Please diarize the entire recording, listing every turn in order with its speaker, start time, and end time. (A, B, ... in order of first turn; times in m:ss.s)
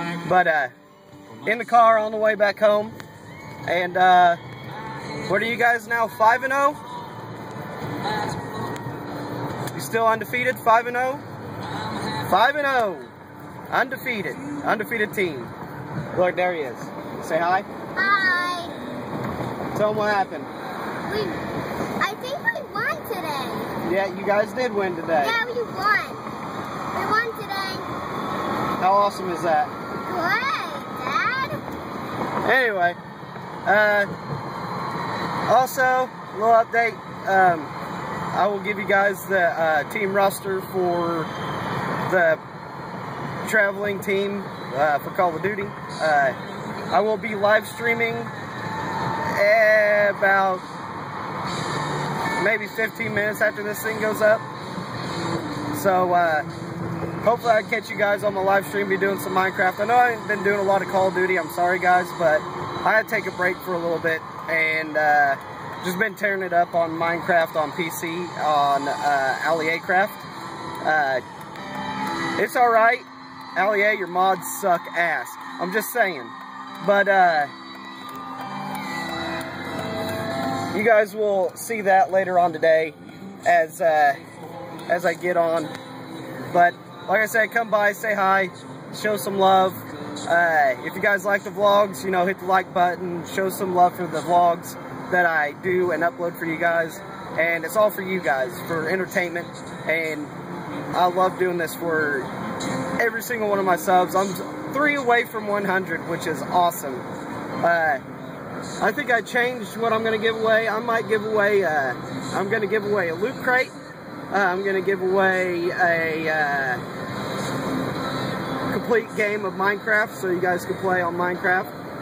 0:00.2-0:00.7 A
0:01.4-0:03.0 A
0:03.6-0:04.4 A
0:05.2-0:06.8 A
0:09.7-0:11.2 A
0:12.2-0:13.1 A
0:13.7-0:15.5 A
0:16.1-0:17.7 A
0:18.0-0:18.8 B
0:19.7-0:20.5 A
0:21.1-0:21.4 B
0:22.0-0:23.7 B
0:23.8-0:25.4 A
0:25.2-0:26.2 B
0:26.9-0:27.9 B
0:28.8-0:29.7 A
0:30.0-0:31.6 B
0:32.4-0:33.0 A
0:33.6-0:34.1 A
0:35.5-0:37.7 A
0:38.3-0:41.3 A
0:42.1-0:42.4 A
0:43.4-0:46.4 A
0:46.9-0:48.3 A
0:49.2-0:50.6 A
0:52.4-0:54.4 A
0:55.7-0:56.5 A
0:57.2-1:10.2 A
1:10.8-1:11.2 A
1:12.4-1:17.5 A
1:20.7-1:24.2 A
1:24.9-1:25.7 A
1:26.5-1:40.3 A
1:40.9-1:42.3 A
1:43.0-1:47.0 A
1:47.6-1:48.0 A
1:48.8-1:53.8 A
1:54.3-1:56.8 A
1:58.7-2:01.7 A